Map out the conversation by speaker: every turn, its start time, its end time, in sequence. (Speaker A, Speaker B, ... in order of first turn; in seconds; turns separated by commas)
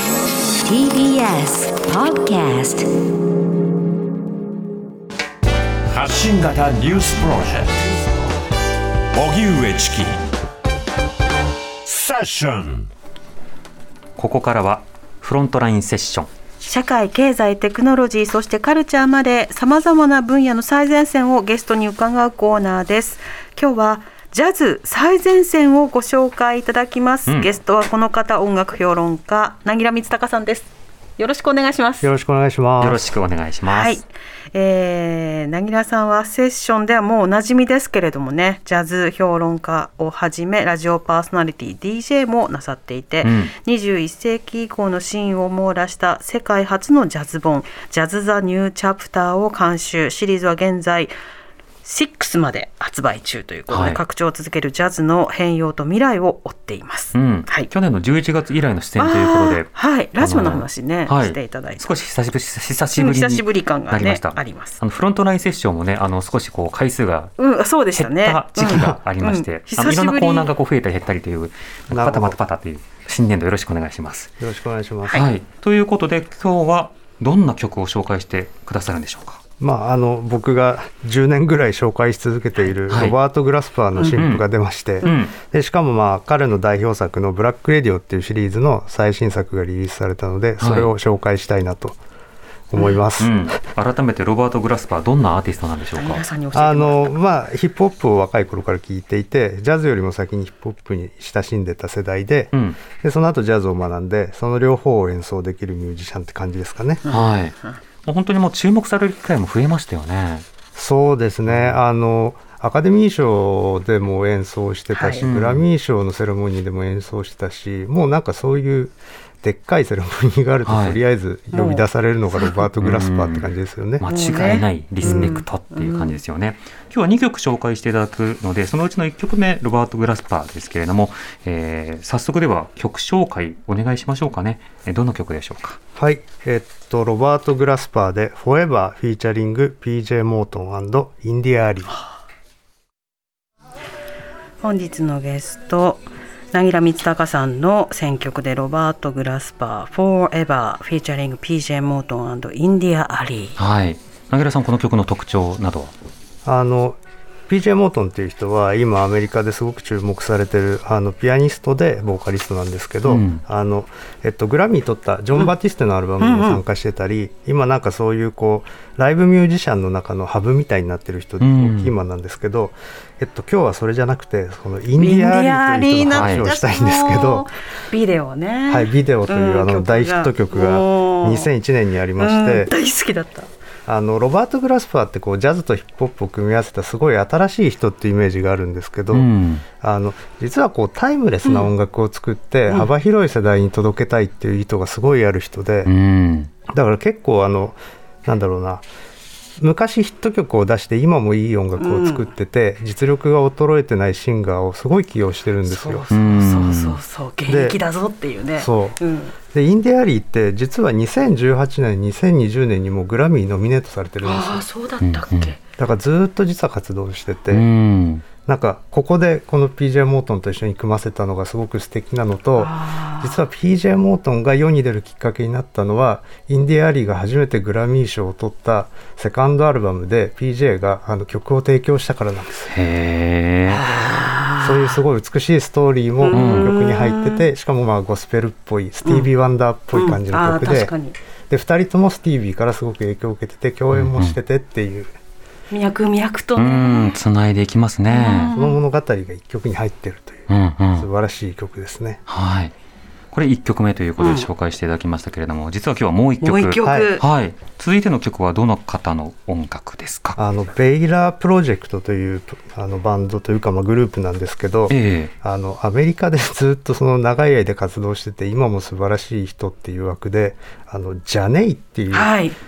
Speaker A: 0.7-2.9, Speaker B: 5.9-7.7, Speaker B: 9.1-10.2, Speaker B: 11.8-12.9, Speaker C: 14.2-16.3, Speaker D: 16.6-32.1, Speaker E: 32.0-33.0, Speaker C: 32.8-34.0, Speaker D: 33.7-51.1, Speaker C: 43.2-43.5, Speaker D: 51.8-57.7, Speaker C: 53.7-54.0, Speaker C: 57.1-67.3, Speaker D: 59.0-61.9, Speaker D: 62.9-64.8, Speaker D: 67.4-70.5, Speaker C: 67.9-74.4, Speaker E: 68.7-69.0, Speaker E: 71.9-72.4, Speaker E: 74.4-75.3, Speaker C: 75.1-79.4, Speaker E: 79.6-92.0, Speaker C: 82.9-83.2, Speaker C: 84.2-84.4, Speaker C: 85.0-85.3, Speaker C: 90.6-90.9, Speaker E: 92.7-93.6, Speaker C: 93.2-96.3, Speaker D: 96.0-97.2, Speaker E: 96.5-107.0, Speaker C: 102.5-102.8, Speaker C: 107.1-110.5, Speaker E: 110.8-124.0, Speaker C: 111.5-111.8, Speaker D: 114.9-115.2, Speaker C: 115.2-115.7, Speaker C: 120.7-121.0, Speaker D: 121.5-121.8, Speaker D: 122.4-122.7, Speaker C: 122.8-123.5, Speaker C: 124.0-135.8, Speaker D: 124.0-126.2, Speaker E: 125.0-125.3, Speaker E: 136.0-141.9, Speaker D: 144.6-153.6, Speaker C: 153.6-155.9, Speaker E: 156.4-157.0, Speaker E: 157.5-177.5, Speaker C: 163.1-163.4, Speaker D: 166.2-166.6, Speaker C: 171.4-171.9, Speaker D: 175.0-181.5, Speaker C: 176.1-176.4, Speaker E: 178.7-182.7, Speaker D: 182.2-183.5, Speaker E: 183.9-189.3, Speaker C: 189.1-189.7, Speaker E: 189.8-195.9, Speaker D: 191.4-191.7, Speaker C: 195.8-196.5, Speaker E: 196.7-198.9, Speaker E: 199.6-206.1, Speaker D: 201.8-202.3, Speaker D: 205.7-209.4, Speaker C: 206.1-207.0, Speaker E: 207.5-207.8, Speaker E: 208.6-209.0, Speaker E: 209.5-214.7, Speaker D: 214.2-215.6, Speaker C: 215.0-215.5, Speaker E: 215.8-217.7, Speaker C: 217.5-218.2, Speaker E: 218.4-232.7, Speaker D: 222.6-223.4, Speaker C: 232.7-233.8, Speaker D: 233.7-234.9, Speaker E: 234.6-240.9, Speaker D: 236.2-237.5, Speaker C: 236.3-236.7, Speaker D: 239.0-239.3, Speaker D: 239.9-241.2, Speaker E: 241.5-245.2, Speaker C: 243.9-244.4, Speaker D: 245.7-247.2, Speaker C: 246.6-248.5, Speaker D: 248.1-248.8, Speaker E: 248.4-252.2, Speaker C: 250.5-251.1, Speaker C: 252.3-252.7, Speaker C: 253.3-260.4, Speaker D: 254.2-254.5, Speaker D: 256.4-257.2, Speaker E: 256.8-257.1, Speaker E: 260.4-272.3, Speaker C: 264.9-265.3, Speaker D: 272.1-272.6